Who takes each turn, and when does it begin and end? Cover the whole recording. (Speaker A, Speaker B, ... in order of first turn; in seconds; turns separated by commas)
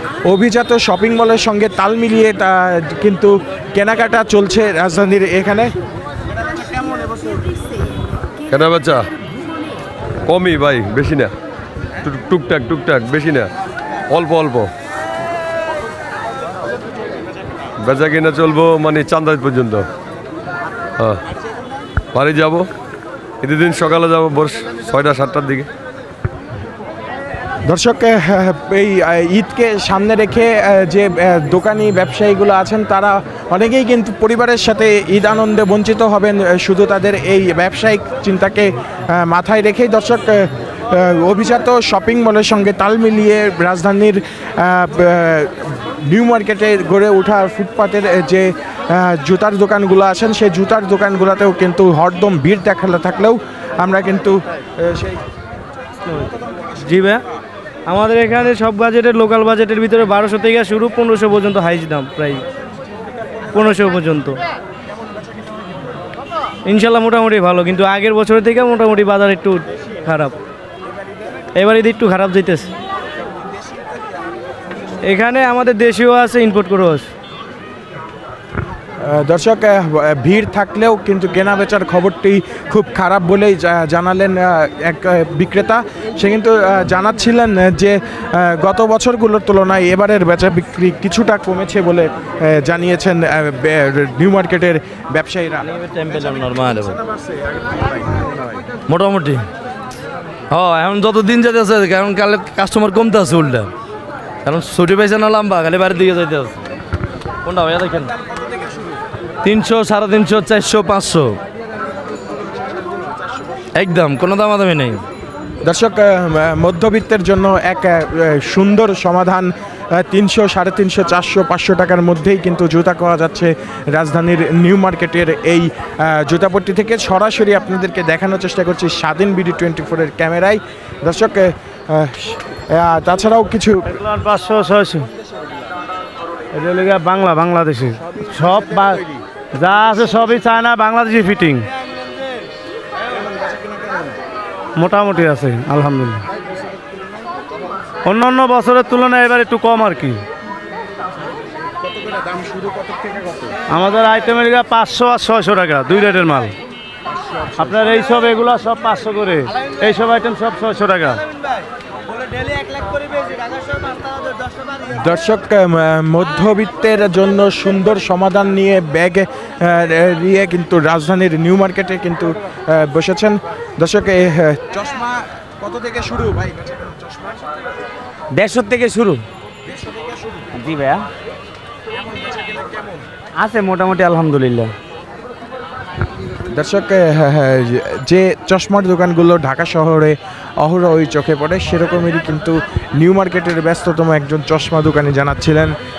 Speaker A: 0.3-5.7, Speaker B: 8.5-9.0, Speaker B: 10.3-11.3, Speaker B: 12.0-13.5, Speaker B: 14.1-14.7, Speaker B: 17.9-19.9, Speaker B: 22.1-22.7, Speaker B: 23.4-25.7, Speaker A: 27.7-55.2, Speaker C: 56.0-57.2, Speaker C: 57.9-62.5, Speaker C: 63.5-64.4, Speaker C: 66.7-70.4, Speaker C: 71.5-72.7, Speaker C: 75.0-77.1, Speaker A: 79.0-95.7, Speaker D: 95.7-97.0, Speaker D: 98.9-99.5, Speaker D: 100.5-103.7, Speaker D: 104.4-106.6, Speaker D: 107.4-108.1, Speaker D: 109.4-111.4, Speaker D: 113.8-115.0, Speaker A: 115.6-133.8, Speaker C: 133.9-135.1, Speaker C: 136.5-141.7, Speaker C: 144.8-146.2, Speaker C: 148.1-150.2, Speaker C: 153.7-156.6, Speaker C: 157.6-161.2, Speaker A: 164.8-176.9, Speaker E: 178.3-179.2, Speaker E: 180.6-181.1, Speaker E: 183.4-184.7, Speaker A: 186.5-195.8